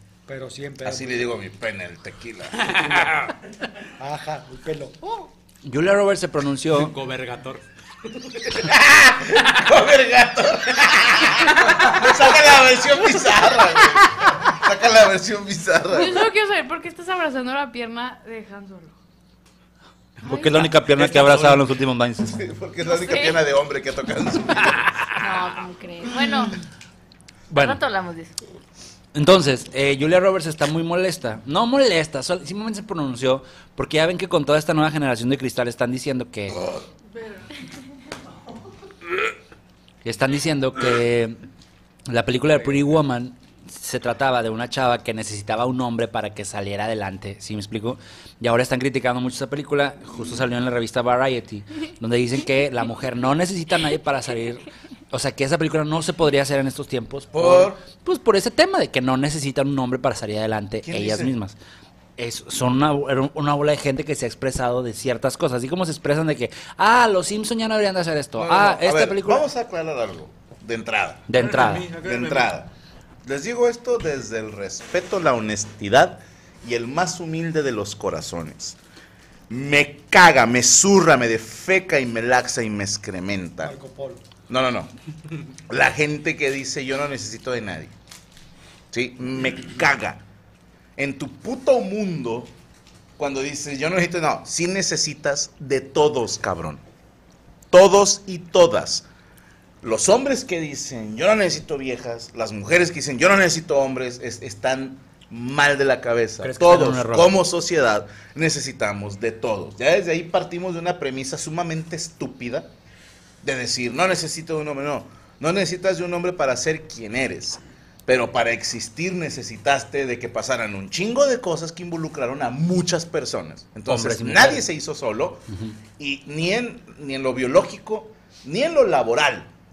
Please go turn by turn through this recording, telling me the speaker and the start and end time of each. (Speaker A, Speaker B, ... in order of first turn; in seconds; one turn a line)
Speaker A: 0.3-1.4
Speaker B: 0.8-3.3
Speaker C: 2.6-3.0
Speaker A: 4.0-5.3
Speaker D: 5.6-7.0
Speaker C: 6.7-7.6
Speaker B: 8.5-16.3
Speaker E: 15.9-18.9
Speaker C: 20.2-20.5
Speaker D: 20.2-22.4
Speaker B: 20.4-21.7
Speaker B: 22.2-24.9
Speaker F: 22.9-23.4
Speaker D: 24.7-25.3
Speaker F: 25.2-26.6
Speaker D: 27.5-27.8
Speaker F: 27.5-28.3
Speaker D: 29.1-36.7
Speaker E: 37.1-37.4
Speaker D: 40.0-41.4
Speaker D: 42.1-61.5
Speaker B: 57.3-57.9
Speaker B: 60.8-61.4
Speaker D: 62.2-69.5
Speaker B: 68.3-72.7
Speaker D: 71.3-72.0
Speaker C: 71.3-72.5
Speaker B: 73.2-78.8
Speaker B: 79.5-83.7
Speaker A: 83.6-84.2
Speaker B: 84.5-84.9
Speaker B: 85.7-87.9
Speaker B: 88.9-90.2
Speaker B: 91.0-92.5
Speaker B: 93.2-96.8
Speaker B: 97.7-99.0
Speaker B: 99.8-112.7
Speaker D: 106.4-107.3
Speaker B: 113.4-129.5
Speaker D: 123.8-124.7
Speaker D: 125.5-125.8